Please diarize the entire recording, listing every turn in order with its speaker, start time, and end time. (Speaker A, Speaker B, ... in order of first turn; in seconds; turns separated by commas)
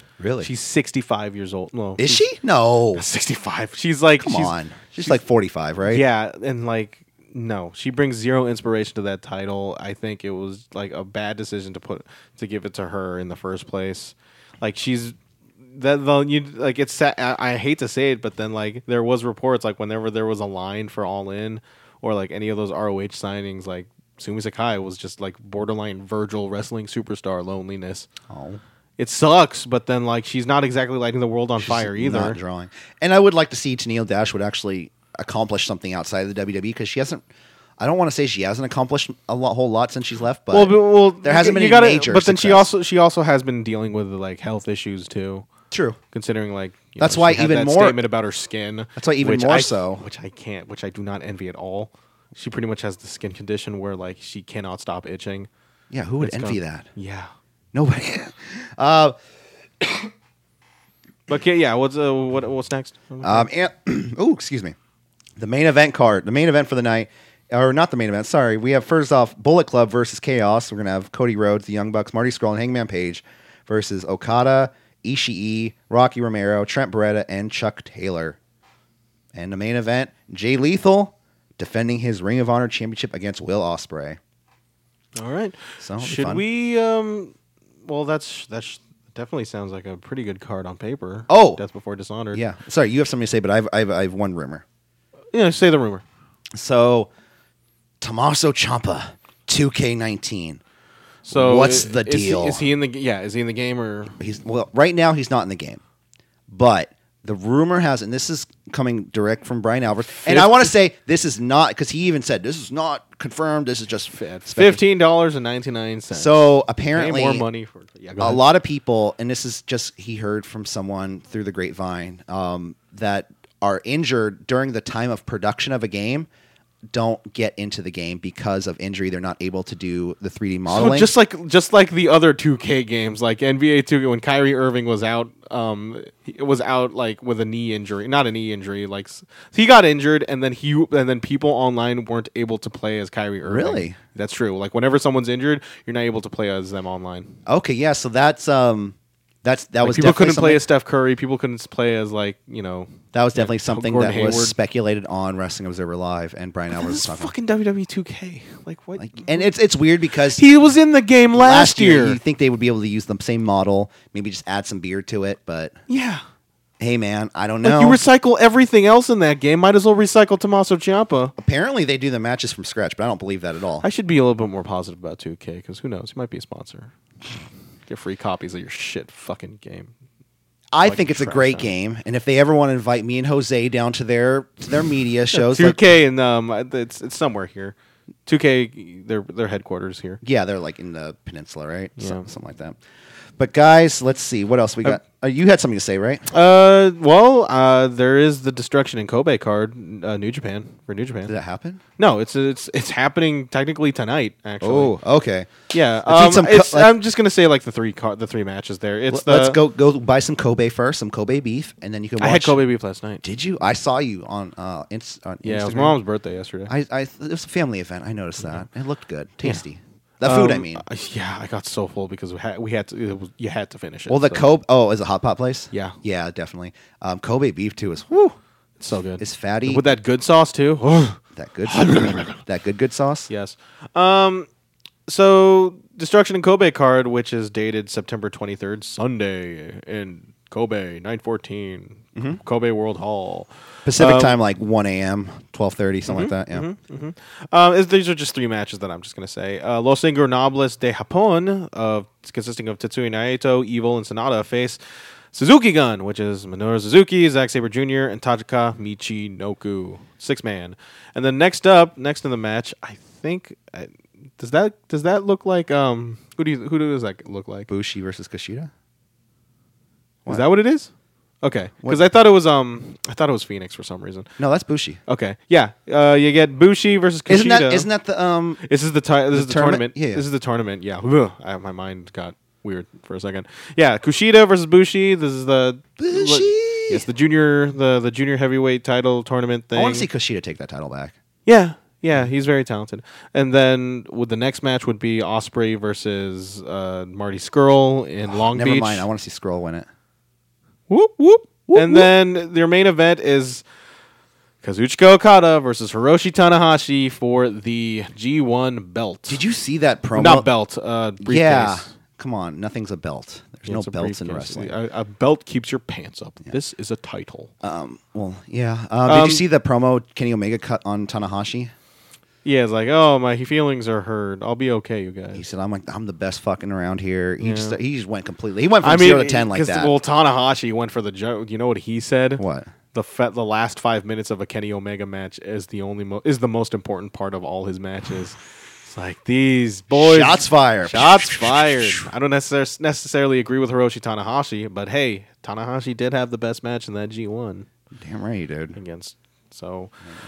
Speaker A: 0.2-0.5, Speaker B: 0.4-2.2, Speaker A: 2.0-3.0, Speaker B: 2.9-5.2, Speaker A: 4.2-6.0, Speaker B: 5.8-15.2, Speaker B: 15.7-28.1, Speaker A: 28.3-28.6, Speaker B: 29.0-32.4, Speaker A: 31.6-37.2, Speaker A: 37.8-42.7, Speaker B: 40.5-45.5, Speaker A: 45.7-46.0, Speaker B: 46.1-55.5, Speaker A: 47.0-48.0, Speaker A: 49.0-50.0, Speaker A: 55.9-56.9, Speaker B: 56.2-57.3, Speaker A: 57.7-59.1, Speaker A: 59.8-60.1, Speaker B: 61.3-63.5, Speaker A: 63.2-64.7, Speaker A: 65.4-78.4, Speaker A: 79.3-84.2, Speaker B: 85.2-87.3, Speaker A: 85.8-86.4, Speaker B: 87.8-92.4, Speaker A: 91.3-91.6, Speaker A: 92.3-94.6, Speaker B: 95.3-96.0, Speaker A: 96.5-97.1, Speaker A: 98.0-100.6, Speaker B: 101.2-104.2, Speaker A: 101.3-102.7, Speaker A: 104.2-105.8, Speaker A: 106.5-114.8, Speaker B: 110.2-110.7, Speaker B: 114.1-118.4, Speaker A: 116.1-117.4, Speaker A: 118.2-126.3, Speaker A: 126.9-131.1, Speaker B: 130.7-147.4, Speaker A: 143.4-144.0, Speaker A: 147.4-150.6, Speaker B: 149.8-154.6, Speaker A: 153.1-157.3, Speaker B: 156.7-159.5, Speaker A: 159.0-160.4, Speaker B: 160.3-162.2, Speaker A: 161.3-165.8, Speaker B: 165.9-166.2, Speaker A: 166.8-168.0, Speaker B: 167.6-171.3, Speaker A: 171.4-173.8, Speaker B: 173.8-176.9, Speaker B: 177.9-179.9, Speaker A: 180.7-185.8, Speaker B: 180.8-181.7, Speaker B: 185.3-190.2, Speaker A: 190.2-192.8, Speaker B: 192.0-192.3, Speaker A: 193.4-196.3, Speaker B: 196.3-201.3, Speaker A: 201.2-201.8, Speaker B: 202.0-205.0, Speaker A: 204.6-205.5, Speaker B: 205.7-209.6, Speaker A: 206.0-206.9, Speaker A: 209.1-212.6, Speaker B: 212.2-213.2, Speaker A: 213.2-216.0, Speaker B: 215.4-216.7, Speaker A: 216.7-220.8, Speaker B: 220.2-224.5, Speaker A: 224.1-228.3, Speaker B: 228.8-232.4, Speaker A: 229.2-229.8, Speaker A: 231.3-233.3, Speaker B: 233.3-234.5, Speaker B: 235.1-244.4, Speaker A: 242.1-242.4, Speaker A: 243.8-246.7, Speaker B: 246.1-254.8, Speaker B: 255.3-267.7, Speaker A: 267.7-268.7, Speaker B: 270.3-270.9, Speaker B: 271.4-274.3, Speaker A: 274.4-275.0, Speaker B: 275.1-277.9, Speaker A: 277.3-278.6, Speaker B: 278.6-290.1, Speaker A: 279.3-280.2, Speaker A: 286.0-287.0, Speaker A: 289.7-291.1, Speaker B: 291.4-299.1, Speaker A: 298.2-299.9, Speaker B: 300.9-303.6, Speaker A: 301.7-302.1, Speaker B: 304.6-309.4, Speaker A: 309.3-310.5, Speaker B: 310.1-311.9, Speaker A: 311.2-314.7, Speaker B: 313.6-317.5, Speaker A: 317.6-321.7, Speaker B: 319.0-319.4, Speaker B: 322.4-325.4, Speaker A: 325.3-329.9, Speaker B: 327.4-327.8, Speaker B: 328.8-332.4, Speaker A: 332.4-332.7, Speaker B: 332.9-347.6, Speaker A: 339.9-342.1, Speaker A: 347.9-348.8, Speaker B: 348.7-349.9